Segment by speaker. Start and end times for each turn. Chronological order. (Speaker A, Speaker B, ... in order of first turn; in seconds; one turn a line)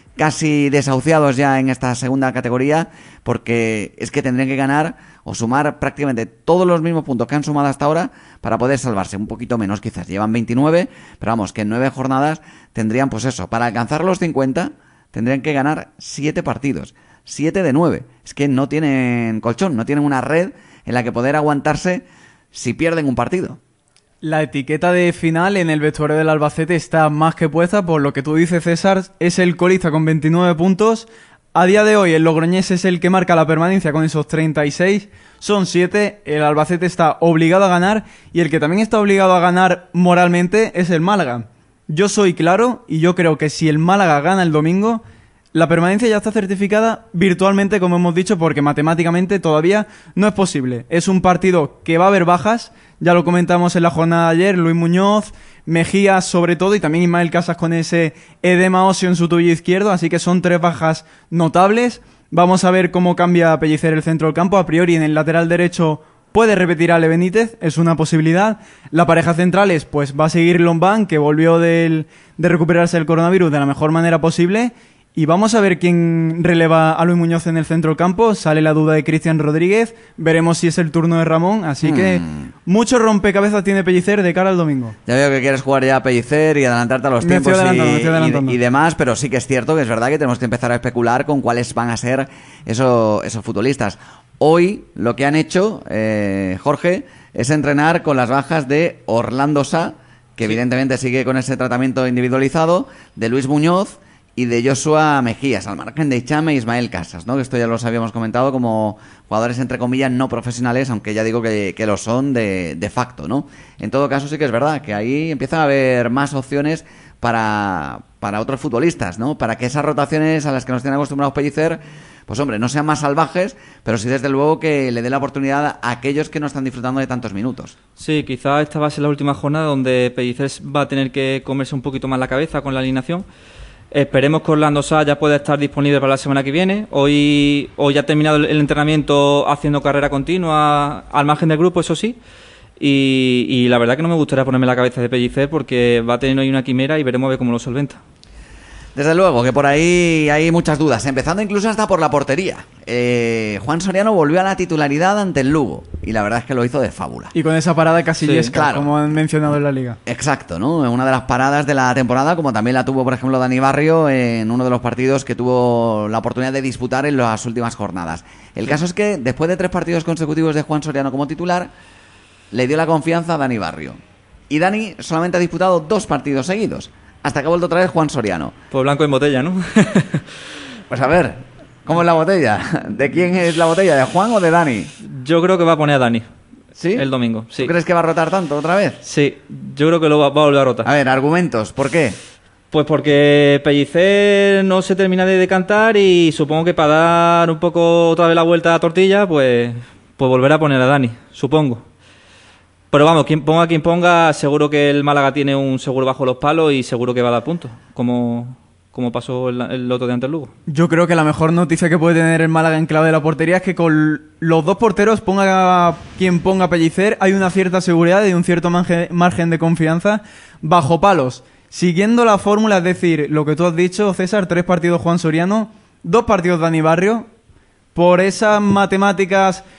Speaker A: 0.2-23.6
Speaker B: 24.2-45.0
Speaker B: 45.5-84.9
Speaker A: 81.8-82.5
Speaker A: 85.0-127.7
Speaker B: 87.2-88.6
Speaker C: 128.0-133.2
Speaker C: 133.9-142.2
Speaker C: 142.8-148.0
Speaker A: 148.9-157.3
Speaker B: 157.3-160.0
Speaker C: 158.2-158.6
Speaker A: 158.5-158.9
Speaker A: 160.1-171.7
Speaker A: 172.5-174.0
Speaker A: 174.5-178.5
Speaker C: 178.7-180.4
Speaker A: 180.9-184.9
Speaker C: 185.0-186.3
Speaker A: 186.8-189.0
Speaker C: 186.9-187.7
Speaker C: 189.0-190.9
Speaker A: 190.8-192.2
Speaker C: 192.7-201.8
Speaker C: 202.9-210.5
Speaker B: 210.7-227.2
Speaker B: 227.9-229.6